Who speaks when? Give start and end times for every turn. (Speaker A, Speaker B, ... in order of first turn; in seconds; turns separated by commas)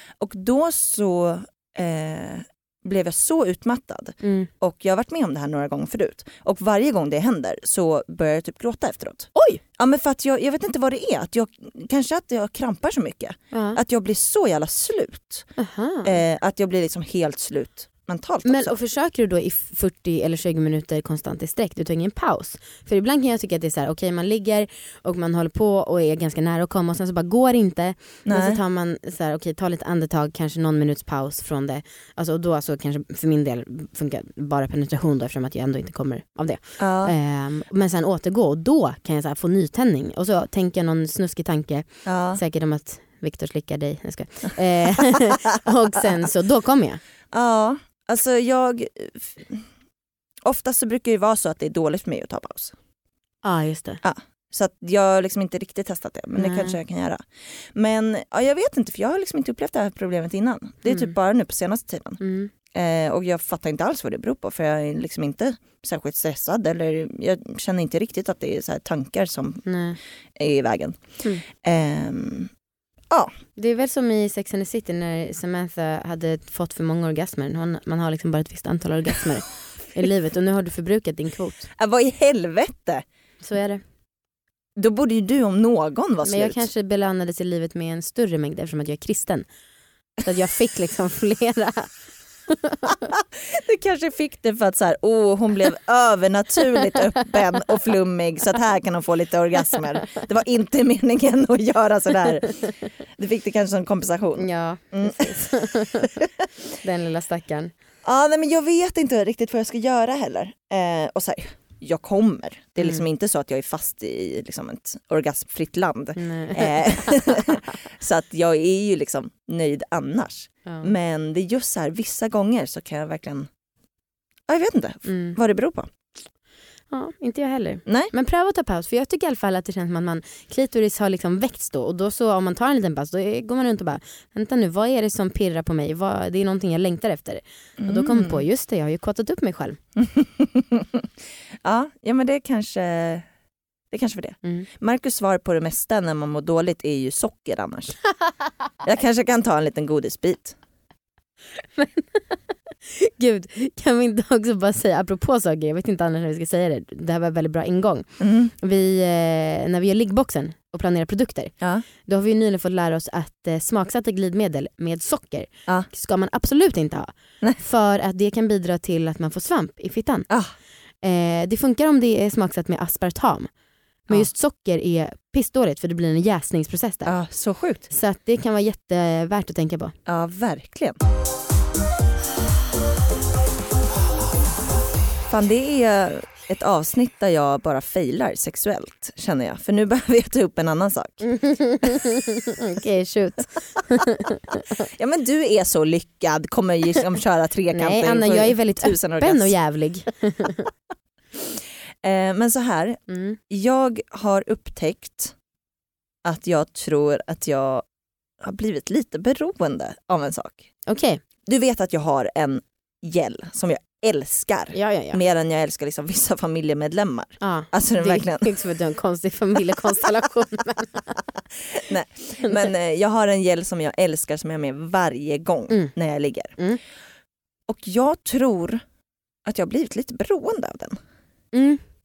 Speaker A: 0.2-15.5, Speaker B: 4.2-4.5, Speaker B: 9.3-9.6, Speaker B: 13.5-13.8, Speaker B: 15.6-16.1, Speaker A: 16.0-18.8, Speaker B: 18.4-47.0, Speaker A: 28.2-28.6, Speaker A: 36.8-37.1, Speaker A: 42.0-42.4, Speaker A: 47.3-49.6, Speaker A: 50.4-52.7, Speaker B: 53.4-54.0, Speaker A: 54.0-62.2, Speaker B: 56.4-56.8, Speaker B: 62.2-62.5, Speaker A: 62.7-69.7, Speaker B: 69.7-70.0, Speaker A: 70.3-72.5, Speaker B: 73.6-81.7, Speaker A: 81.7-83.0, Speaker B: 83.4-83.8, Speaker A: 84.8-86.7, Speaker B: 86.2-89.5, Speaker B: 90.2-91.9, Speaker B: 92.5-93.1, Speaker A: 93.2-106.3, Speaker B: 104.4-106.2, Speaker B: 106.8-107.7, Speaker A: 108.0-123.5, Speaker B: 116.2-117.4, Speaker A: 124.5-125.9, Speaker B: 125.1-125.4, Speaker B: 126.9-139.8, Speaker A: 127.8-128.1, Speaker A: 137.8-138.4, Speaker A: 140.0-141.1, Speaker A: 141.6-143.3, Speaker A: 143.9-148.0, Speaker A: 148.8-150.6, Speaker B: 151.8-152.2, Speaker B: 152.8-161.5, Speaker A: 158.2-158.5, Speaker B: 162.1-170.3, Speaker B: 171.0-173.5, Speaker B: 174.1-177.1, Speaker A: 177.0-177.9, Speaker B: 177.9-179.9, Speaker A: 180.1-181.0, Speaker A: 185.3-191.2, Speaker B: 191.2-194.6, Speaker A: 194.8-199.5, Speaker B: 197.7-200.7, Speaker A: 201.4-205.3, Speaker B: 203.1-203.4, Speaker A: 206.2-207.8, Speaker A: 208.4-210.6, Speaker B: 210.9-211.2, Speaker A: 211.4-218.6, Speaker B: 214.7-215.2, Speaker B: 217.4-221.2, Speaker A: 221.7-226.6, Speaker A: 227.7-228.8, Speaker A: 229.4-231.0, Speaker B: 231.5-231.8